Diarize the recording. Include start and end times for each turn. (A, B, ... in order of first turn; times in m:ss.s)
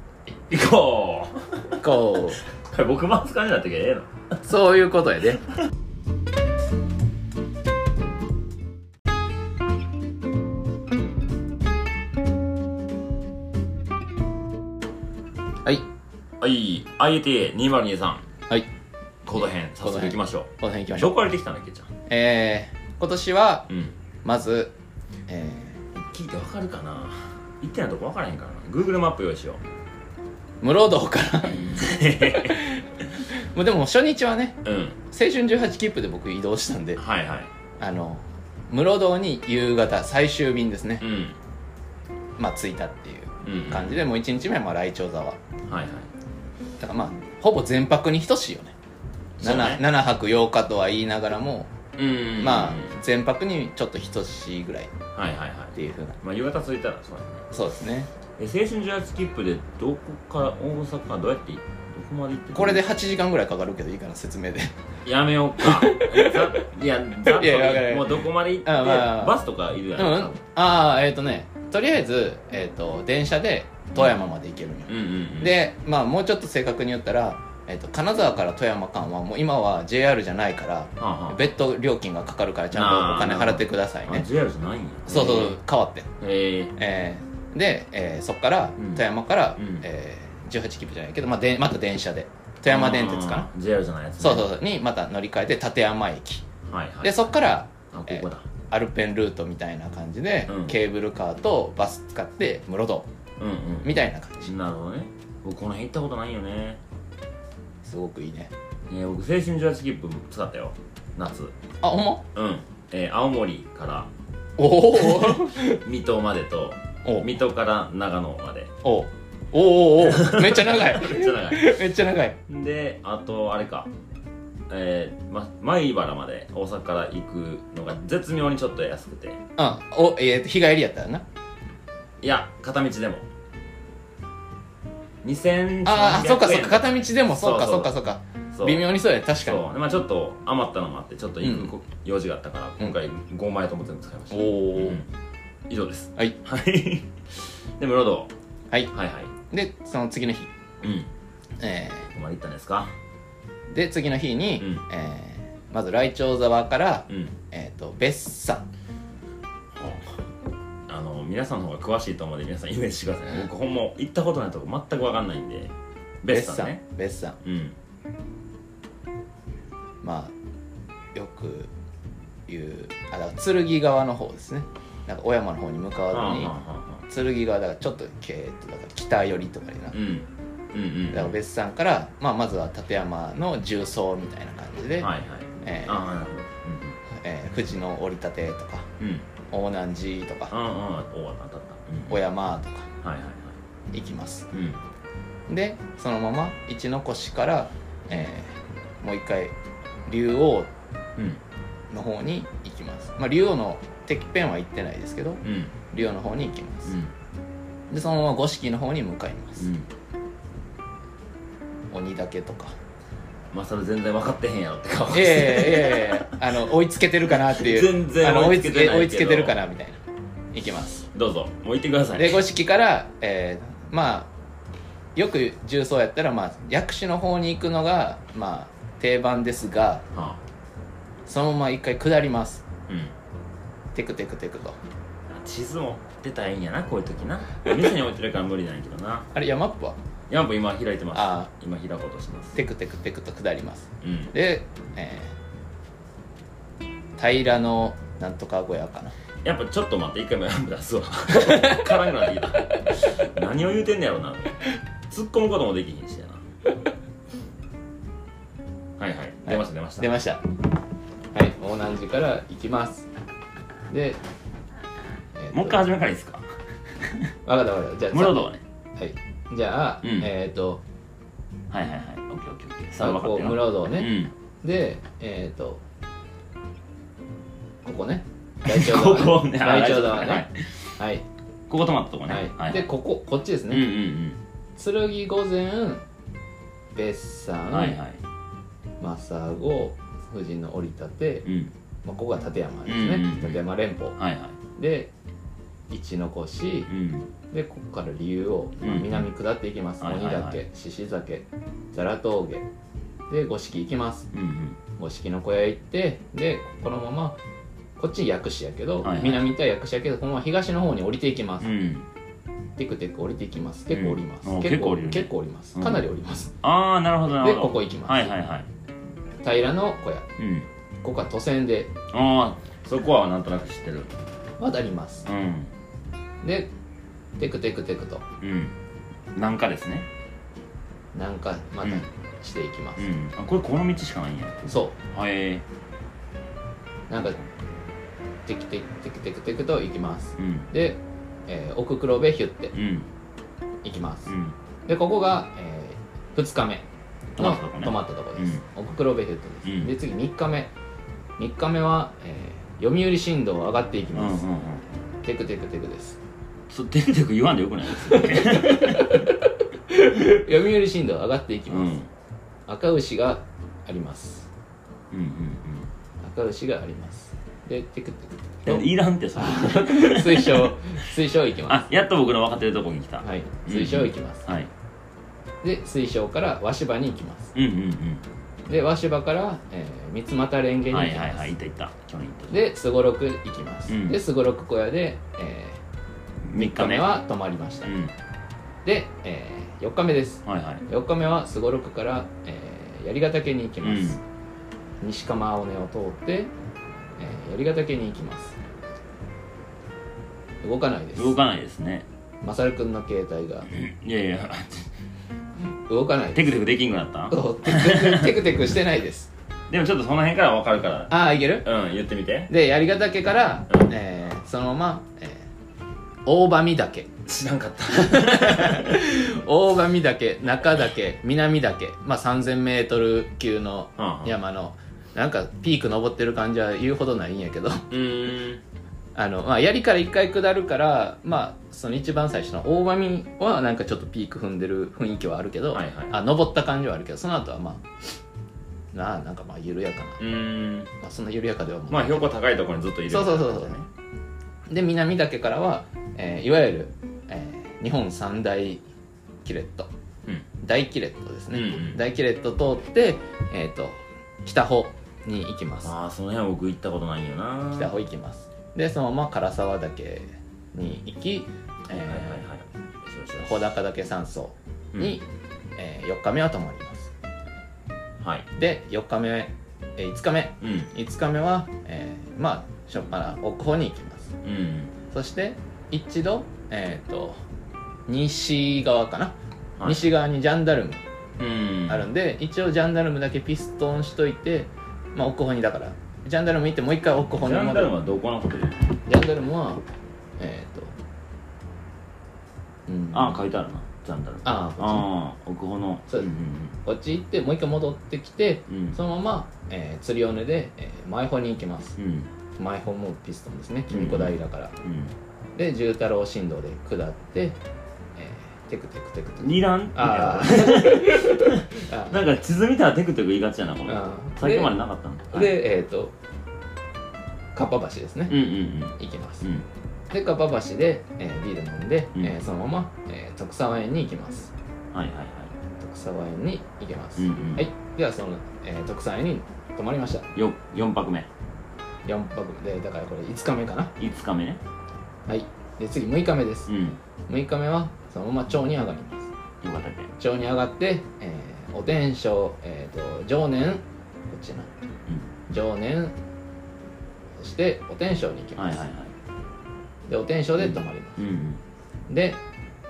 0:00.3-0:01.9 A
0:01.8-0:02.4 B
0:02.4-0:04.1 A
0:04.4-0:05.4 B
0:16.4-0:18.2 A
0:19.2-0:21.9 A
0:19.4-0:21.1 B
0:22.1-0:23.7 B
0:23.7-0:23.9 A
0:24.2-0:24.7 B
0:25.3-0:25.9 B
0:26.0-0:29.6 A
0:30.6-0:37.0 B
0:31.5-0:32.6 A
0:34.6-0:35.0 A
0:37.0-0:37.5 A
0:37.8-0:41.0 B
0:41.0-0:41.4 A
0:42.4-0:45.4 B
0:43.4-0:44.0 A
0:45.7-0:46.1 A
0:46.8-0:48.8 B
0:49.4-0:49.8 A
0:49.4-0:51.7 B
0:52.0-0:53.0 A
0:52.4-0:54.9 B
0:55.2-0:57.5 A
0:55.8-0:56.2 B
0:57.5-0:58.1 B
0:58.4-1:02.9 A
1:02.5-1:04.8 B
1:05.0-1:10.4 A
1:05.6-1:06.6 B
1:07.2-1:09.4 B
1:10.0-1:24.2 B
1:14.9-1:15.6 A
1:21.0-1:21.4 A
1:22.7-1:25.6 A
1:25.1-1:26.1 B
1:26.2-1:26.7 A
1:26.8-1:33.5 B
1:29.6-1:29.8 A
1:32.7-1:34.5 A
1:34.2-1:36.4 B
1:36.7-1:37.4 A
1:37.0-1:43.1 B
1:37.9-1:38.5 A
1:40.5-1:40.8 A
1:43.4-1:46.8 A
1:43.8-1:44.5 B
1:47.8-1:48.5 B
1:48.9-1:51.6 A
1:51.8-1:52.2 B
1:52.3-1:54.1 A
1:54.6-1:55.8 B
1:55.0-1:58.7 A
1:57.0-1:57.3 B
1:58.8-2:02.4 B
2:00.0-2:01.8 A
2:02.5-2:03.9 A
2:04.7-2:09.4 A
2:09.6-2:11.2 B
2:12.2-2:13.2 A
2:15.2-2:17.9 A
2:15.8-2:19.6 B
2:18.5-2:25.1 A
2:21.4-2:21.7 B
2:24.3-2:25.0 B
2:25.7-2:28.3 A
2:28.9-2:29.3 A
2:29.5-2:30.5 B
2:30.8-2:31.1 A
2:31.6-2:32.1 B
2:32.1-2:32.9 A
2:33.7-2:38.7 B
2:37.1-2:37.3 A
2:39.7-2:40.2 A
2:40.9-2:46.8 A
2:46.3-2:47.4 B
2:47.4-2:47.8 A
2:50.0-2:50.3 B
2:51.2-2:51.7 B
2:52.5-2:56.5 B
2:56.1-2:57.0 A
2:57.1-3:00.0 B
2:59.9-3:01.4 A
3:01.1-3:05.1 B
3:05.0-3:07.0 A
3:05.6-3:06.0 B
3:07.1-3:08.9 B
3:09.0-3:09.3 A
3:09.5-3:10.5 B
3:10.5-3:12.2 A
3:12.1-3:12.9 B
3:13.0-3:13.6 A
3:13.9-3:14.5 B
3:14.5-3:14.8 A
3:15.5-3:19.6 B
3:20.1-3:20.7 B
3:21.2-3:21.4 A
3:21.9-3:27.0 B
3:25.4-3:25.7 A
3:26.9-3:27.1 A
3:27.9-3:29.7 B
3:29.6-3:29.9 A
3:31.9-3:32.7 B
3:33.5-3:36.4 A
3:35.1-3:40.0 B
3:37.4-3:39.6 A
3:40.5-3:41.1 B
3:41.1-3:42.4 A
3:42.2-3:44.3 B
3:45.2-3:50.0 B
3:50.1-3:50.4 A
3:51.3-3:52.6 B
3:52.9-3:53.1 A
3:53.9-3:54.8 B
3:55.3-3:59.3 A
3:59.3-4:00.0 B
4:00.3-4:02.6 A
4:01.1-4:01.5 B
4:02.6-4:05.3 B
4:04.0-4:04.3 A
4:07.2-4:09.1 B
4:09.4-4:16.4 A
4:11.3-4:11.9 B
4:19.0-4:20.1 A
4:19.5-4:20.4 B
4:21.3-4:23.1 B
4:23.9-4:24.2 B
4:25.4-4:25.8 B
4:25.5-4:26.4 A
4:27.0-4:27.3 A
4:27.5-4:30.8 B
4:28.1-4:28.6 A
4:30.0-4:30.3 A
4:31.7-4:34.3 A
4:33.0-4:35.8 B
4:37.8-4:40.4 B
4:38.6-4:40.6 A
4:41.0-4:41.2 B
4:41.7-4:42.9 A
4:42.3-4:43.9 B
4:43.7-4:44.4 A
4:44.8-4:46.0 B
4:47.0-4:48.0 B
4:47.7-4:48.2 A
4:49.0-4:51.5 B
4:51.4-4:51.7 A
4:52.0-4:54.2 B
4:52.9-4:53.6 A
4:54.2-4:54.6 A
4:54.8-4:55.1 B
4:55.9-4:56.9 B
4:56.9-4:57.3 A
4:57.5-5:02.7 B
4:58.8-4:59.3 A
5:00.0-5:00.6 A
5:03.3-5:04.3 B
5:04.3-5:04.8 A
5:05.0-5:07.4 B
5:08.0-5:11.7 B
5:09.0-5:09.5 A
5:11.6-5:12.1 A
5:12.8-5:16.5 B
5:13.9-5:16.1 A
5:16.6-5:18.7 A
5:17.3-5:18.3 B
5:19.4-5:20.3 B
5:20.4-5:20.7 A
5:21.0-5:21.9 B
5:22.1-5:24.1 A
5:24.6-5:25.3 B
5:25.3-5:25.7 A
5:26.4-5:26.7 B
5:27.4-5:28.2 B
5:28.4-5:28.8 A
5:29.4-5:30.1 A
5:31.1-5:33.1 B
5:33.0-5:35.6 A
5:34.7-5:35.0 B
5:37.1-5:37.4 B
5:38.5-5:42.8 B
5:40.4-5:40.7 A
5:42.7-5:43.1 A
5:43.8-5:44.3 B
5:44.3-5:44.6 A
5:44.9-5:46.8 B
5:47.4-5:48.6 A
5:47.4-5:50.7 B
5:49.6-5:49.9 A
5:51.4-5:54.4 B
5:54.1-5:54.8 A
5:55.2-5:56.2 B
5:56.7-5:59.3 A
5:58.0-6:02.0 B
6:01.7-6:02.1 A
6:02.7-6:04.5 B
6:05.1-6:05.9 A
6:06.2-6:11.8 B
6:08.7-6:10.8 A
6:11.7-6:14.7 A
6:13.2-6:14.6 B
6:15.6-6:17.5 B
6:17.6-6:18.2 A
6:18.7-6:21.5 B
6:20.9-6:22.6 A
6:22.5-6:25.8 B
6:23.9-6:24.2 A
6:26.4-6:27.1 A
6:26.6-6:27.9 B
6:27.8-6:28.1 A
6:28.8-6:34.2 B
6:30.4-6:30.8 A
6:33.8-6:34.2 A
6:35.0-6:36.5 B
6:37.2-6:38.6 B
6:40.6-6:41.4 B
6:41.2-6:42.1 A
6:42.4-6:43.7 B
6:43.7-6:44.9 A
6:45.9-6:46.5 B
6:46.3-6:48.4 A
6:47.3-6:49.3 B
6:49.7-6:52.5 A
6:51.1-6:51.7 B
6:52.5-6:55.5 B
6:56.3-6:57.1 B
6:57.3-6:59.1 A
6:57.9-7:07.9 B
7:04.0-7:04.4 A
7:07.9-7:08.6 A
7:09.2-7:17.9 B
7:15.7-7:16.2 A
7:18.9-7:20.2 B
7:20.2-7:20.9 A
7:21.0-7:22.3 B
7:21.9-7:23.9 A
7:23.1-7:23.8 B
7:24.7-7:28.8 B
7:29.4-7:29.9 B
7:30.6-7:35.9 B
7:31.5-7:32.0 A
7:35.8-7:38.0 A
7:37.7-7:42.4 B
7:41.9-7:43.7 A
7:43.4-7:45.2 B
7:45.8-7:47.1 B
7:48.2-7:48.5 A
7:48.6-7:54.4 B
7:50.6-7:50.9 A
7:54.4-7:54.9 A
7:55.1-7:57.4 B
7:58.1-8:01.0 B
7:59.8-8:00.1 A
8:01.4-8:02.1 A
8:01.9-8:07.9 B
8:07.4-8:08.9 A
8:09.1-8:09.8 B
8:10.4-8:10.9 B
8:12.9-8:13.4 B
8:13.1-8:16.8 A
8:14.4-8:15.1 B
8:16.8-8:22.0 B
8:18.7-8:19.0 A
8:22.0-8:22.3 A
8:22.6-8:24.8 B
8:23.9-8:25.1 A
8:25.6-8:27.6 B
8:28.2-8:32.2 B
8:29.4-8:35.6 A
8:33.9-8:34.8 B
8:35.3-8:36.1 B
8:37.6-8:38.4 B
8:38.3-8:39.7 A
8:39.0-8:39.5 B
8:40.1-8:44.5 B
8:44.9-8:45.5 A
8:45.8-8:50.3 B
8:47.2-8:47.7 A
8:50.4-8:51.3 A
8:52.1-8:53.9 B
8:54.0-8:54.6 A
8:55.3-8:56.7 B
8:56.7-8:57.0 A
8:57.3-8:59.3 B
8:59.6-9:00.1 A
9:00.2-9:04.7 B
9:05.5-9:06.1 B
9:07.4-9:08.9 B
9:08.6-9:09.1 A
9:10.1-9:11.2 B
9:10.6-9:11.6 A
9:12.1-9:12.4 B